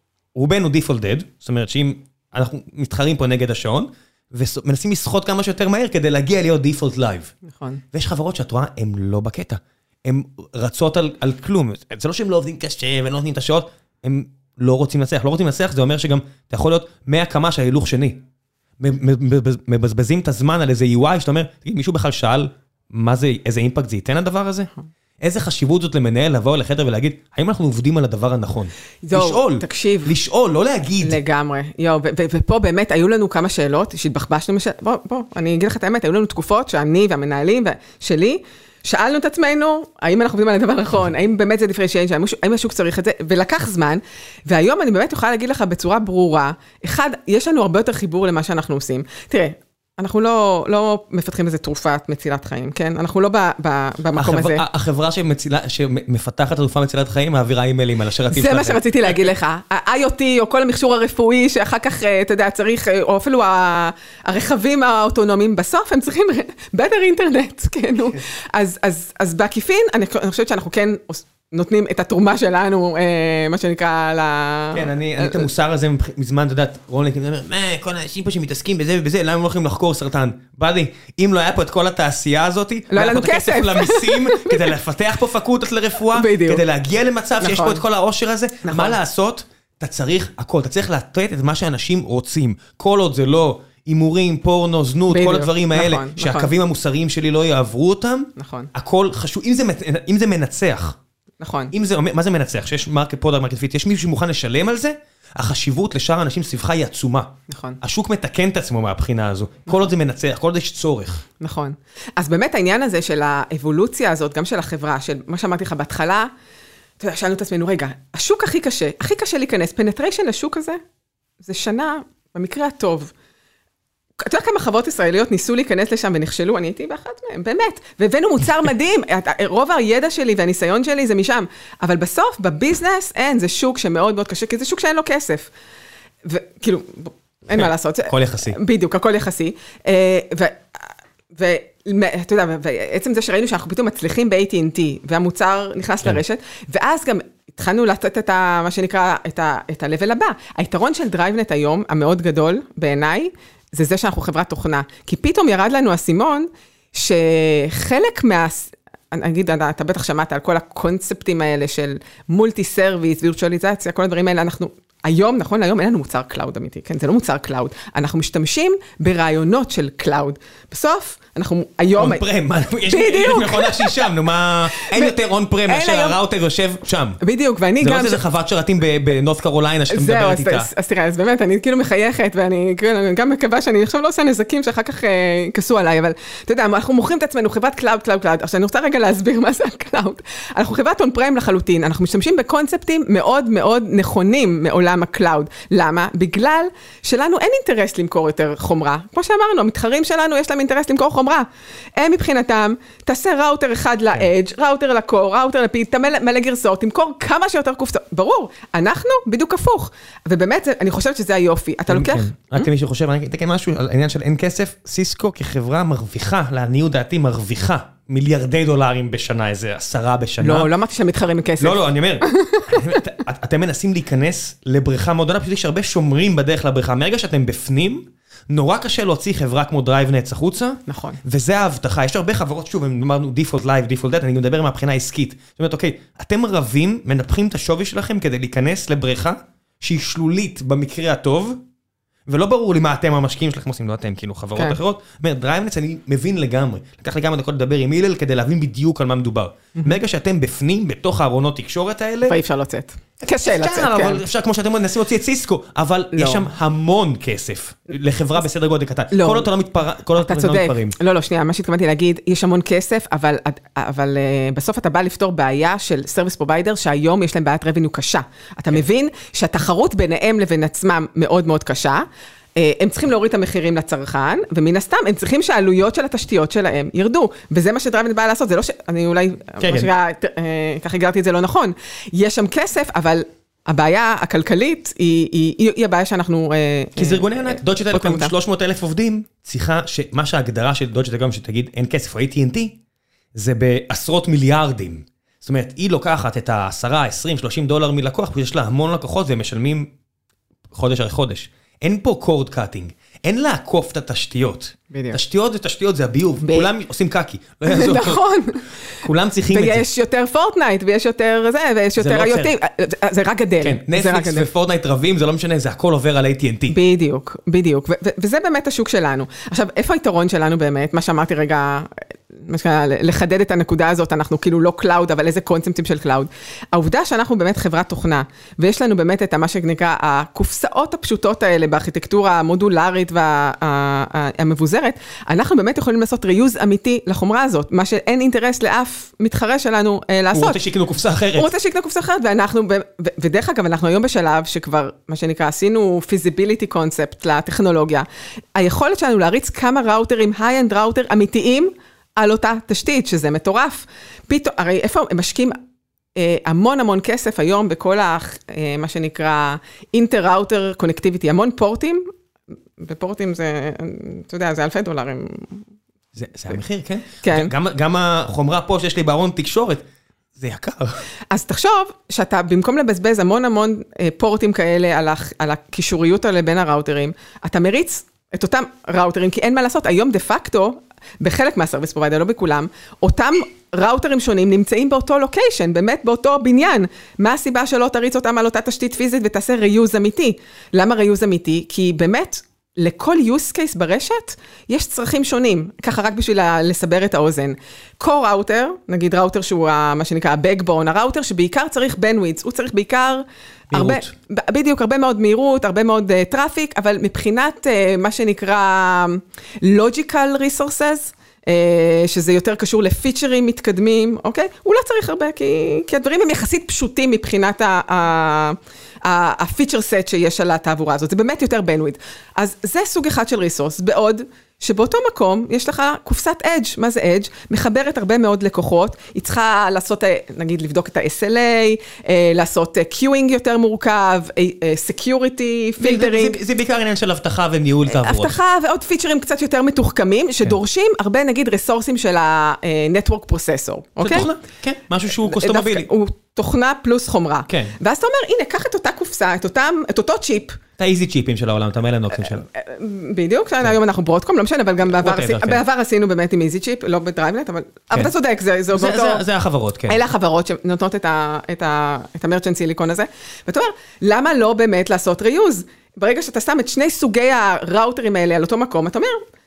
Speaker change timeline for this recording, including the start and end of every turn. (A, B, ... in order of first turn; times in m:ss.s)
0:00.4-0:07.3 A
0:07.5-0:07.8 B
0:07.9-0:18.2 A
0:18.8-0:24.7 A
0:25.2-0:31.2 A
0:29.1-0:30.1 B
0:31.0-0:54.6 B
0:54.2-0:58.8 A
0:58.3-1:15.5 B
1:14.7-1:41.0 A
1:22.9-1:24.7 B
1:26.1-1:26.6 B
1:27.4-1:27.8 B
1:28.6-1:29.0 B
1:35.1-1:36.5 B
1:38.4-1:38.7 B
1:41.4-1:41.7 B
1:41.7-1:51.2 A
1:47.5-1:47.8 B
1:51.4-1:56.3 B
1:57.0-2:00.8 B
2:01.4-2:03.1 B
2:04.2-2:15.5 B
2:16.2-2:52.2 B
2:17.5-2:18.6 A
2:52.0-2:57.2 A
2:52.9-2:54.1 B
2:54.7-2:56.2 B
2:57.2-2:58.2 B
2:57.8-3:00.7 A
2:59.9-3:32.7 B
3:31.9-3:40.7 A
3:40.4-3:43.0 B
3:41.6-4:01.6 A
3:50.9-3:51.2 B
4:02.3-4:12.4 A
4:12.3-4:14.2 B
4:13.3-4:21.0 A
4:16.2-4:16.5 B
4:19.1-4:19.5 B
4:20.2-4:48.3 B
4:39.6-4:39.9 A
4:47.0-4:52.8 A
4:53.3-4:59.9 A
5:00.7-5:08.3 A
5:04.9-5:05.2 B
5:06.4-5:06.7 B
5:07.7-5:08.7 B
5:09.0-5:09.9 A
5:09.5-5:14.5 B
5:12.0-5:12.5 A
5:13.6-5:16.8 A
5:16.7-5:40.6 B
5:40.3-5:41.5 A
5:41.4-5:55.6 B
5:56.2-6:02.1 B
6:02.8-6:05.7 B
6:06.2-6:09.8 A
6:07.2-6:07.5 B
6:10.4-6:11.0 A
6:11.3-7:16.4 B
6:43.7-6:44.1 A
7:15.8-7:18.4 A
7:17.9-7:24.3 B
7:24.0-7:25.9 A
7:25.2-7:30.6 B
7:27.5-7:27.8 A
7:30.8-7:32.5 A
7:32.1-7:39.2 B
7:34.9-7:35.6 A
7:38.7-7:40.0 A
7:39.9-7:49.2 B